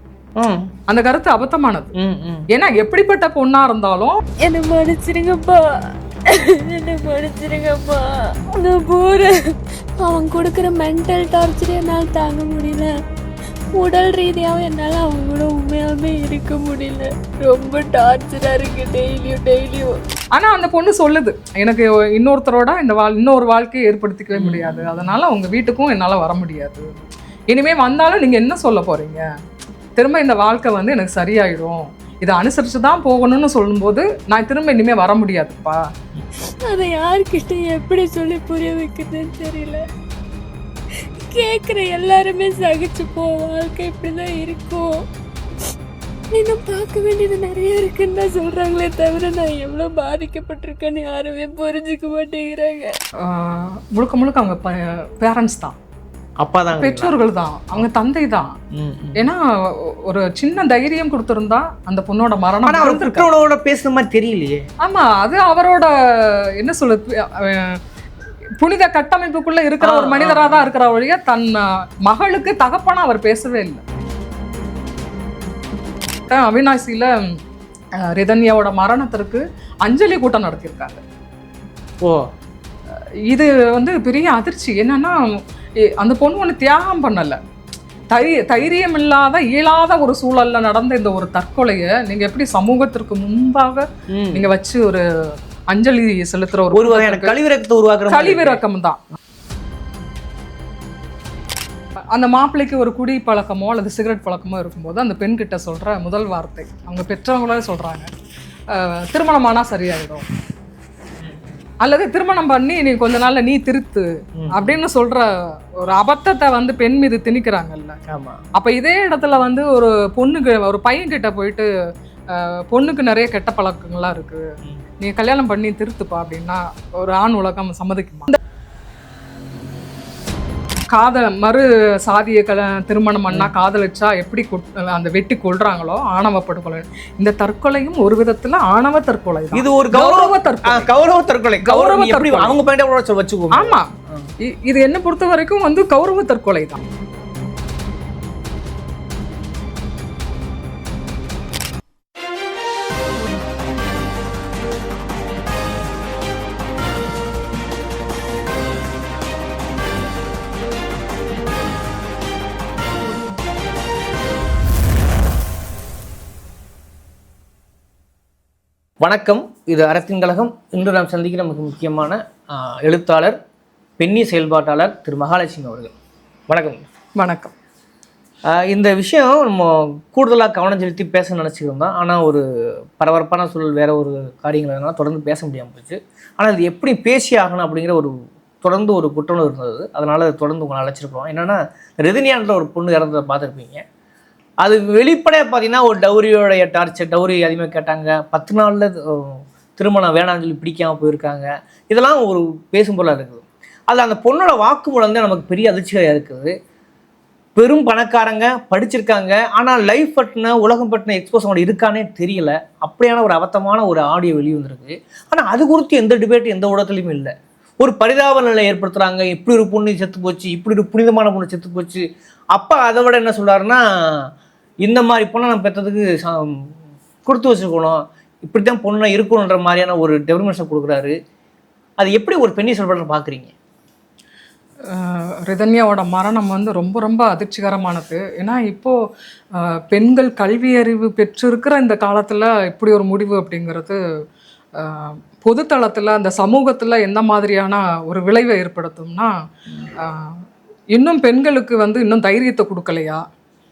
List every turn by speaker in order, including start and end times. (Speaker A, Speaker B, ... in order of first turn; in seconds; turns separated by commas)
Speaker A: 0.4-0.7, Speaker B: 0.9-1.9, Speaker A: 1.9-2.5, Speaker B: 2.5-4.2, Speaker C: 4.4-12.9, Speaker C: 13.8-20.0, Speaker B: 20.3-26.9, Speaker A: 24.4-25.1, Speaker B: 27.5-29.2, Speaker B: 30.0-35.8, Speaker C: 36.6-39.8, Speaker C: 41.2-45.0, Speaker C: 46.3-52.9, Speaker B: 53.2-55.8, Speaker A: 56.4-57.2, Speaker B: 56.8-58.6, Speaker A: 58.7-59.3, Speaker B: 59.2-63.3, Speaker A: 62.7-64.6, Speaker B: 64.8-67.8, Speaker B: 68.6-73.8, Speaker A: 69.8-70.7, Speaker B: 76.3-77.4, Speaker B: 78.0-81.0, Speaker B: 83.3-85.2, Speaker B: 85.8-87.4, Speaker B: 88.1-95.0, Speaker A: 94.1-94.5, Speaker B: 95.7-97.4, Speaker A: 96.7-98.6, Speaker B: 98.1-99.0, Speaker B: 102.1-108.1, Speaker B: 108.7-110.2, Speaker B: 111.8-118.0, Speaker A: 114.4-114.8, Speaker A: 118.1-118.4, Speaker B: 118.6-121.7, Speaker B: 122.3-124.5, Speaker B: 125.0-128.4, Speaker B: 130.9-140.9, Speaker A: 139.5-144.3, Speaker B: 141.6-142.6, Speaker B: 143.5-143.9, Speaker B: 144.4-146.8, Speaker A: 169.0-173.4, Speaker A: 174.0-175.9, Speaker A: 176.5-176.8, Speaker B: 177.2-177.5, Speaker A: 178.5-182.4, Speaker A: 183.0-193.8, Speaker A: 194.6-206.5, Speaker A: 207.6-224.3, Speaker A: 224.8-226.7, Speaker A: 227.2-231.2, Speaker A: 232.0-233.5, Speaker B: 234.9-238.9, Speaker B: 239.5-244.0, Speaker B: 244.8-249.3, Speaker B: 250.0-250.4, Speaker B: 250.9-253.2